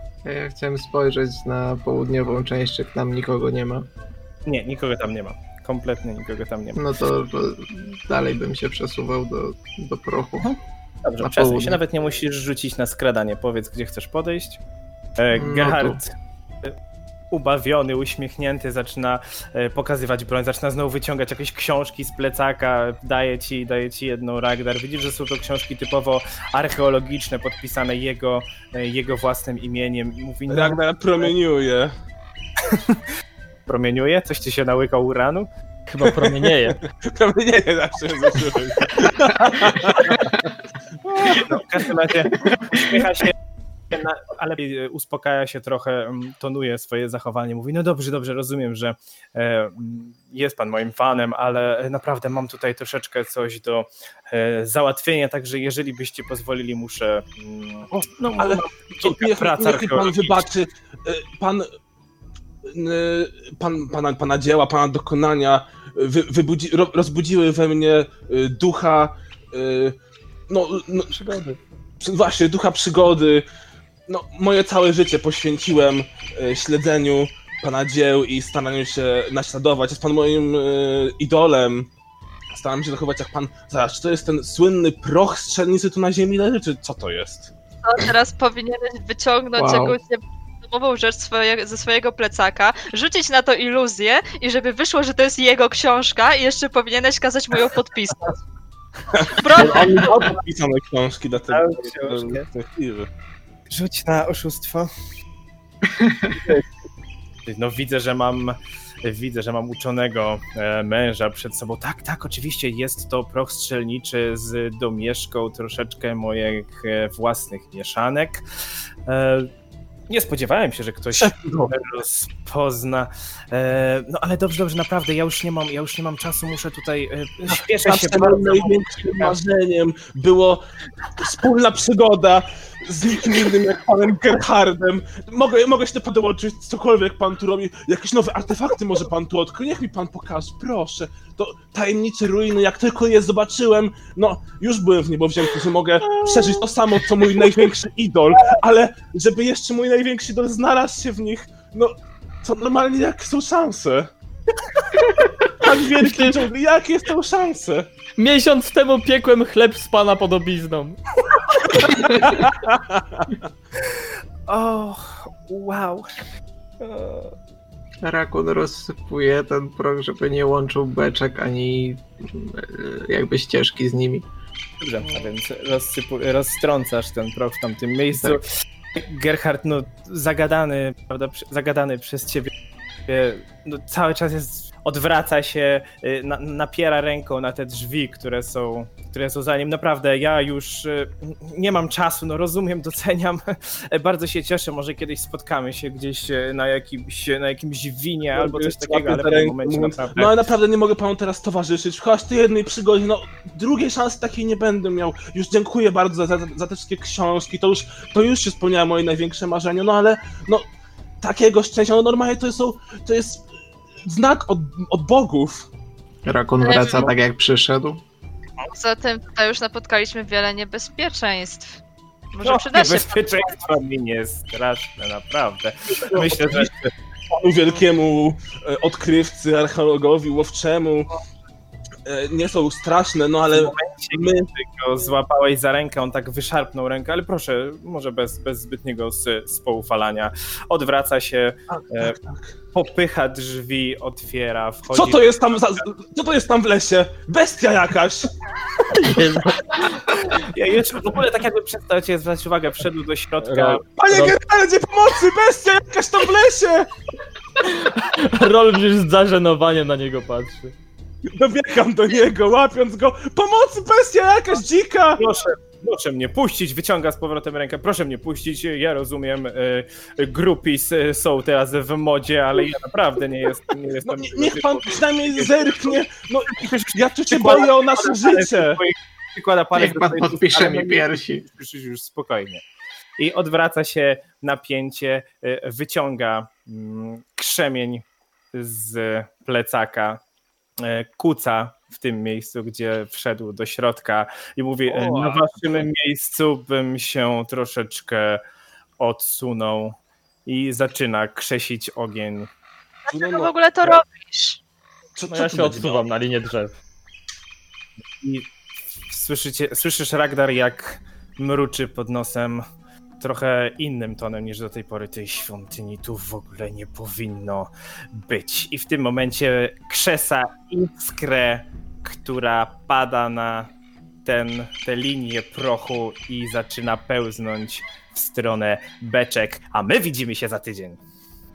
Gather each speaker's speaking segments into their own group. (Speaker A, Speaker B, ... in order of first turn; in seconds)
Speaker A: 0.2-3.9, 6.8-10.5, 11.2-11.8, 15.3-16.0, 89.6-90.0, 105.9-106.3, 168.0-174.2, 178.1-178.4, 216.3-218.0, 279.8-281.5
Speaker B: 4.5-6.9, 10.4-14.6, 15.2-16.1, 17.3-30.8, 32.7-33.0, 33.7-35.5, 41.3-43.4, 43.9-60.5, 101.5-102.5, 103.7-104.9, 107.5-118.4, 119.1-119.5, 120.1-129.4, 163.9-166.1, 166.8-167.3, 174.8-178.4, 178.9-182.5, 183.1-200.4, 222.4-226.9, 233.5-242.2, 242.7-245.2, 250.3-253.8, 265.2-275.5, 276.6-282.6, 283.2-290.2, 290.8-298.4, 299.0-302.5, 308.2-308.5, 309.1-312.6, 313.2-323.7, 324.2-331.0
Speaker C: 30.5-31.9, 36.0-40.5, 41.1-41.6, 57.9-61.7, 62.7-70.0, 70.5-71.2, 72.0-73.5, 74.1-81.9, 82.5-87.5, 99.1-103.1, 106.3-106.7, 121.2-121.7, 127.5-130.6, 131.2-154.1, 155.5-157.9, 162.1-163.4, 198.3-210.7, 211.2-213.5, 214.0-215.7, 226.0-226.7, 227.3-231.1, 232.1-234.5, 241.7-242.5, 244.9-248.3, 254.0-256.9, 261.3-265.2, 274.1-278.8, 294.9-295.9, 303.1-304.0, 305.2-306.1
Speaker D: 35.9-36.8, 71.1-71.6, 146.2-146.6, 156.0-156.4, 158.2-161.0, 248.9-250.2, 253.4-254.3, 257.6-260.7, 305.3-306.7
Speaker E: 87.8-98.4, 99.3-100.3, 216.6-217.0, 218.7-221.8, 222.3-223.7, 303.1-304.6